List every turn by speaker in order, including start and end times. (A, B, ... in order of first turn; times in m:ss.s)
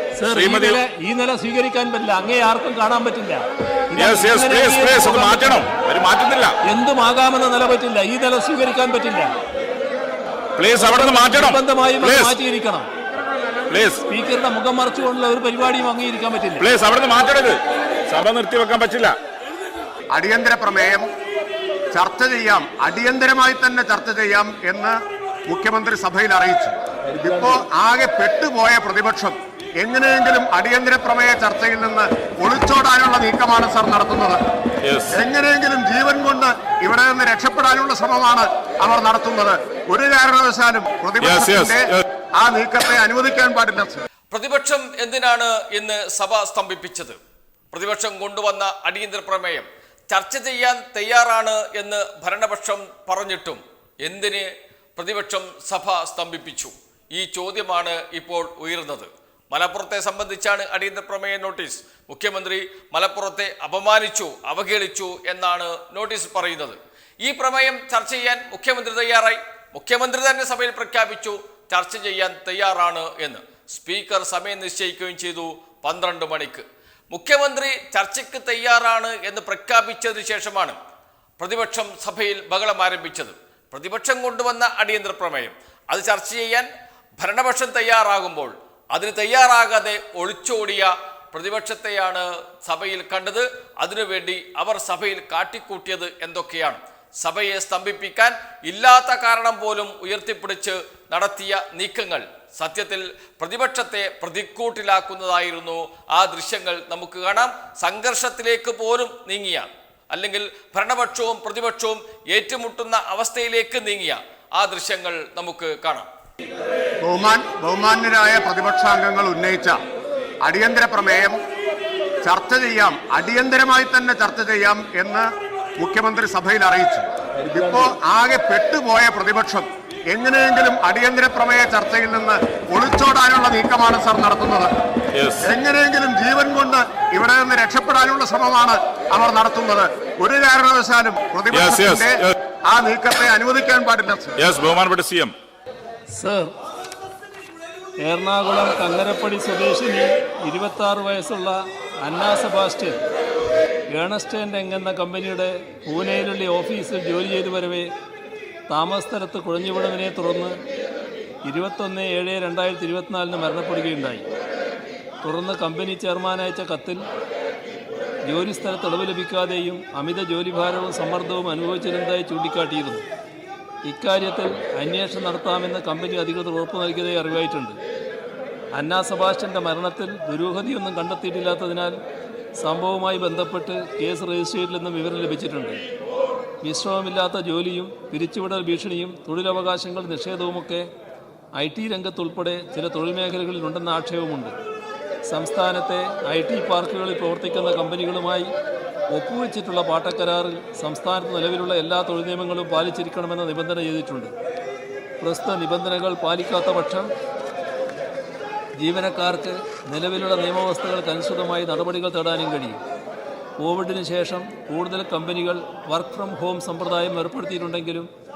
0:00.1-0:05.6 A
0:00.3-0:00.8 B
0:04.0-0:06.6 B
0:06.6-0:09.3 A
0:10.6-0:12.4 B
0:10.8-0:12.9 A
0:13.7-0:14.0 B
0:14.1-0:16.6 A
0:16.6-0:17.6 B
0:18.1-0:19.1 B
0:20.1-0:21.1 C
0:21.9-0:25.0 C
0:25.5-0:34.4 C
0:34.8-0:35.2 B
0:35.1-0:44.0 C
0:41.2-0:42.0 B
0:44.3-0:47.2 D
0:47.7-1:20.8 D
1:21.4-1:26.7 D
1:27.2-1:56.1 D
1:57.0-1:59.8 C
2:00.4-2:01.4 C
2:02.2-2:05.3 C
2:05.8-2:14.7 C
2:15.1-2:15.5 B
2:15.4-2:22.1 C
2:21.5-2:22.3 B
2:22.7-2:24.3 C
2:24.4-2:25.3 B
2:26.1-2:26.5 A
2:28.0-2:33.0 A
2:33.9-2:37.9 A
2:38.7-2:40.6 A
2:41.4-2:44.2 A
2:45.2-2:47.0 A
2:48.2-2:53.0 A
2:53.8-2:57.8 A
2:58.7-3:01.9 A
3:02.6-3:05.8 A
3:06.6-3:10.8 A
3:11.5-3:14.5 A
3:15.3-3:18.5 A
3:19.1-3:24.3 A
3:25.2-3:27.1 A
3:28.8-3:32.8 A
3:33.6-3:38.1 A